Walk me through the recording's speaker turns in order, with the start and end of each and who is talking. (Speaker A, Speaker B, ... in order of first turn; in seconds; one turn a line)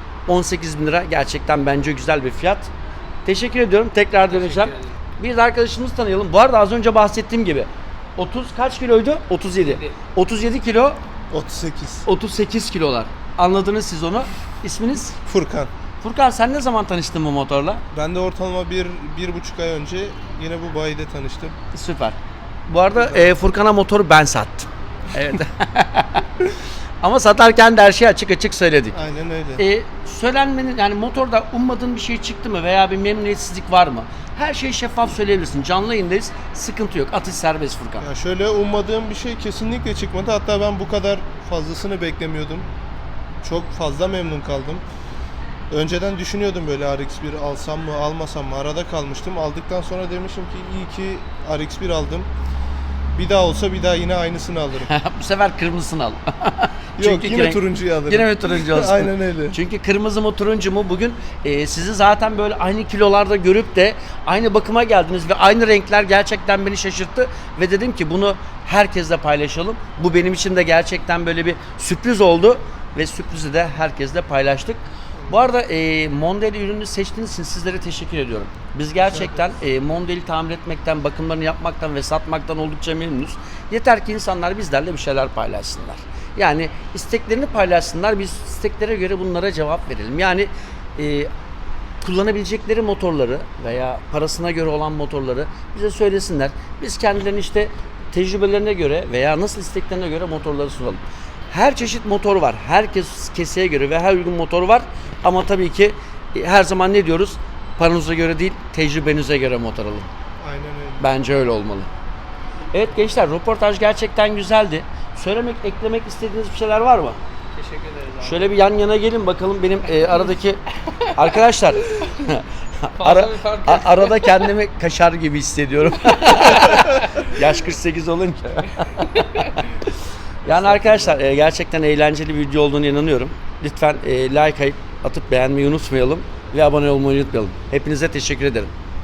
Speaker A: 0.3-2.7
Speaker A: 3.2-11.0
Speaker B: 4.2-5.0
Speaker B: 9.6-9.9
Speaker C: 11.3-12.1
Speaker A: 12.1-15.2
Speaker C: 15.2-15.7
Speaker A: 16.0-17.8
Speaker C: 17.9-21.6
Speaker A: 21.7-22.2
Speaker A: 22.7-26.5
Speaker C: 22.9-23.4
Speaker A: 27.0-29.0
Speaker C: 28.9-29.6
Speaker A: 29.6-38.1
Speaker C: 38.0-42.7
Speaker C: 43.4-44.8
Speaker C: 45.7-52.3
Speaker C: 53.1-54.9
Speaker A: 54.9-91.3
Speaker C: 57.0-59.6
Speaker C: 79.0-79.5
Speaker A: 92.0-110.1
Speaker C: 110.4-111.1
Speaker A: 111.0-111.9
Speaker A: 112.7-117.2
Speaker B: 117.5-118.5
Speaker A: 118.2-120.6
Speaker B: 120.0-120.3
Speaker B: 120.9-121.4
Speaker A: 121.2-129.7
Speaker B: 123.0-124.5
Speaker B: 126.3-127.3
Speaker B: 129.0-129.7
Speaker A: 130.5-138.7
Speaker B: 130.5-131.2